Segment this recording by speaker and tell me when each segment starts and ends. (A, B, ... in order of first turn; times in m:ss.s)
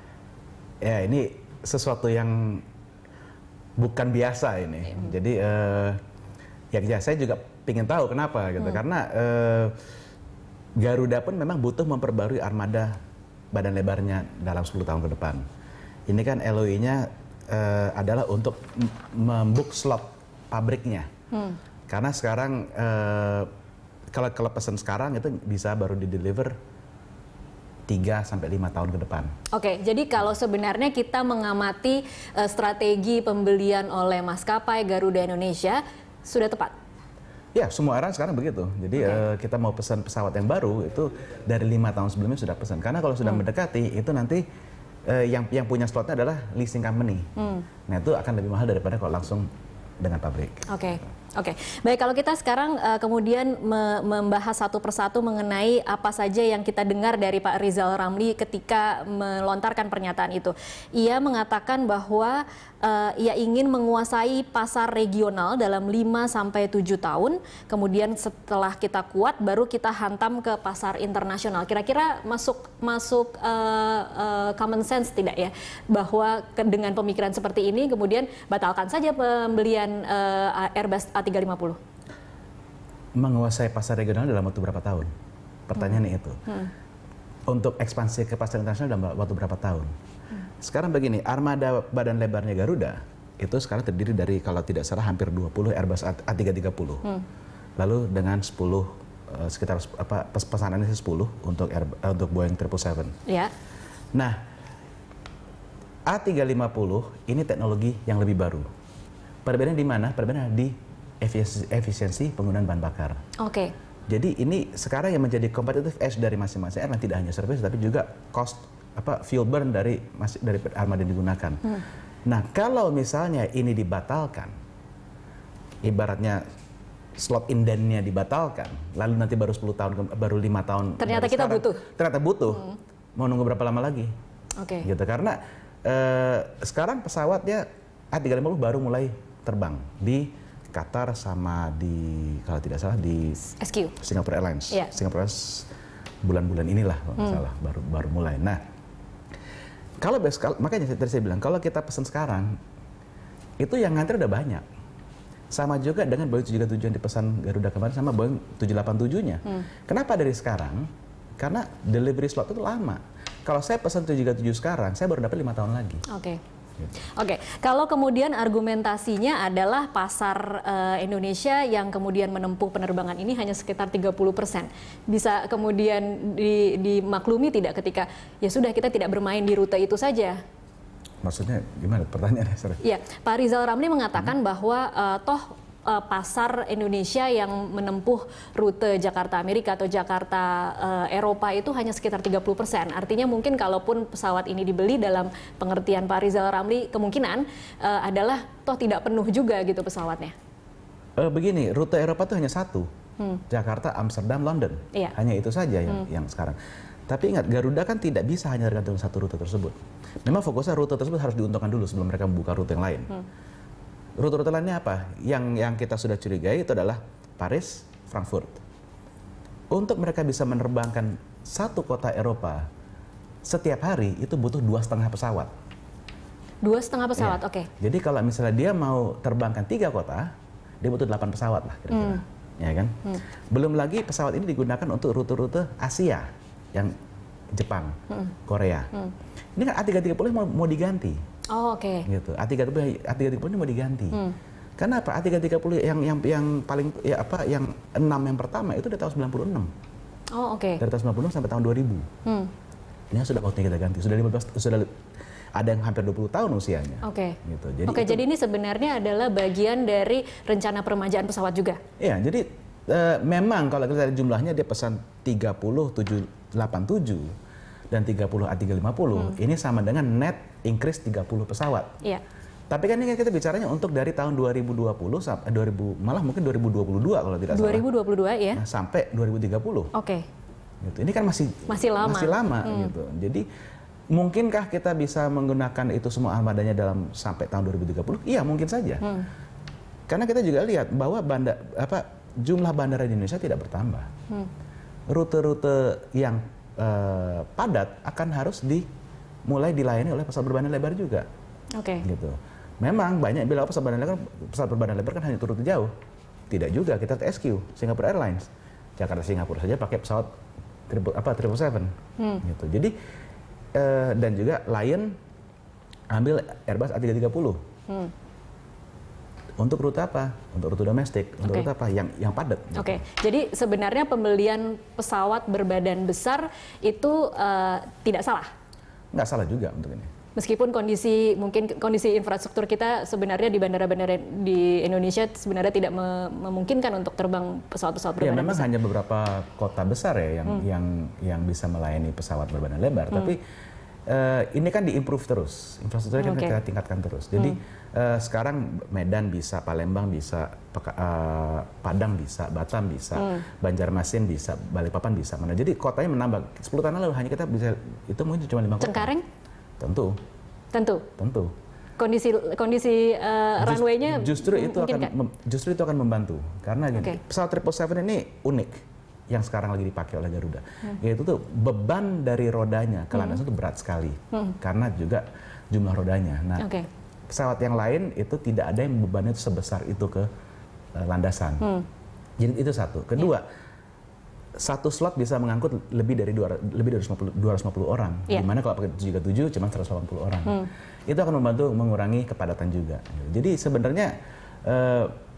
0:00.8-0:02.6 A
0:03.8-0:06.0 A
0:06.7-0:09.8 A
0:10.8-0:13.0 A
0:13.5-0:15.4 A
0:16.1-0:21.1 A
0:21.9-0:23.5 A
0:24.1-0:26.6 A
0:27.9-0:29.3 A
0:29.5-0:36.7 B
0:37.6-0:44.4 A
0:39.0-0:39.2 B
0:45.1-0:47.3 A
0:47.4-0:47.7 B
0:47.9-0:49.5 A
0:50.0-0:50.9 A
0:50.7-1:21.8 B
1:23.2-1:25.1 A
1:25.7-1:26.4 A
1:27.5-1:29.9 A
1:30.6-1:37.1 A
1:37.8-1:43.2 A
1:43.3-1:43.5 B
1:46.1-1:48.7 A
1:49.4-1:53.2 A
1:53.4-1:53.7 B
1:54.1-2:01.7 A
2:02.3-2:04.5 A
2:05.8-2:06.4 A
2:07.2-2:14.1 A
2:11.0-2:11.8 B
2:14.6-2:14.9 B
2:14.8-2:23.4 A
2:23.4-2:23.9 B
2:24.0-2:25.7 A
2:26.2-2:28.6 A
2:30.0-2:32.6 A
2:33.6-2:34.6 A
2:35.5-2:40.9 A
2:41.4-2:46.0 A
2:46.1-2:46.4 B
2:47.1-3:00.4 B
3:01.2-3:02.8 A
3:02.8-3:20.3 B
3:21.2-3:22.9 A
3:23.5-3:26.6 A
3:27.1-3:33.1 A
3:34.2-3:38.6 A
3:39.7-3:42.7 A
3:43.5-3:45.5 A
3:46.6-3:47.7 B
3:47.2-3:50.3 A
3:50.8-3:56.9 A
3:51.9-3:52.2 B
3:57.5-3:57.9 A
3:58.5-3:58.9 A
3:59.6-4:01.2 A
4:01.5-4:02.1 B
4:02.1-4:04.2 A
4:04.8-4:09.7 A
4:10.3-4:10.8 B
4:10.8-4:12.1 A
4:12.2-4:12.5 B
4:13.1-4:14.9 A
4:15.6-4:18.2 A
4:17.0-4:21.8 B
4:22.0-4:27.3 A
4:27.9-4:31.9 A
4:32.7-4:37.9 A
4:37.5-4:38.6 B
4:38.5-4:39.9 A
4:39.9-4:40.2 B
4:40.8-4:43.4 A
4:41.7-4:42.9 B
4:44.1-4:49.0 A
4:50.1-4:54.1 A
4:55.1-4:58.9 A
4:59.5-5:01.3 A
5:01.8-5:02.0 B
5:02.0-5:05.9 A
5:06.5-5:10.3 A
5:10.9-5:11.9 A
5:12.2-5:12.4 B
5:12.4-5:12.9 A
5:13.8-5:15.1 A
5:16.1-5:17.6 A
5:19.6-5:23.0 A
5:22.8-5:28.5 B
5:29.1-5:30.1 A
5:30.4-5:38.7 B
5:38.2-5:43.4 A
5:44.1-5:59.1 A
5:46.2-5:46.6 B
5:53.2-5:53.4 B
5:58.8-5:59.2 B
5:59.8-6:00.2 A
6:00.7-6:01.1 B
6:01.2-6:01.5 A
6:02.0-6:05.1 B
6:03.6-6:08.8 A
6:09.3-6:16.7 A
6:13.1-6:13.4 B
6:16.6-6:16.9 B
6:17.3-6:20.3 A
6:21.0-6:21.6 A
6:22.4-6:23.5 A
6:24.6-6:34.1 A
6:34.6-6:35.1 A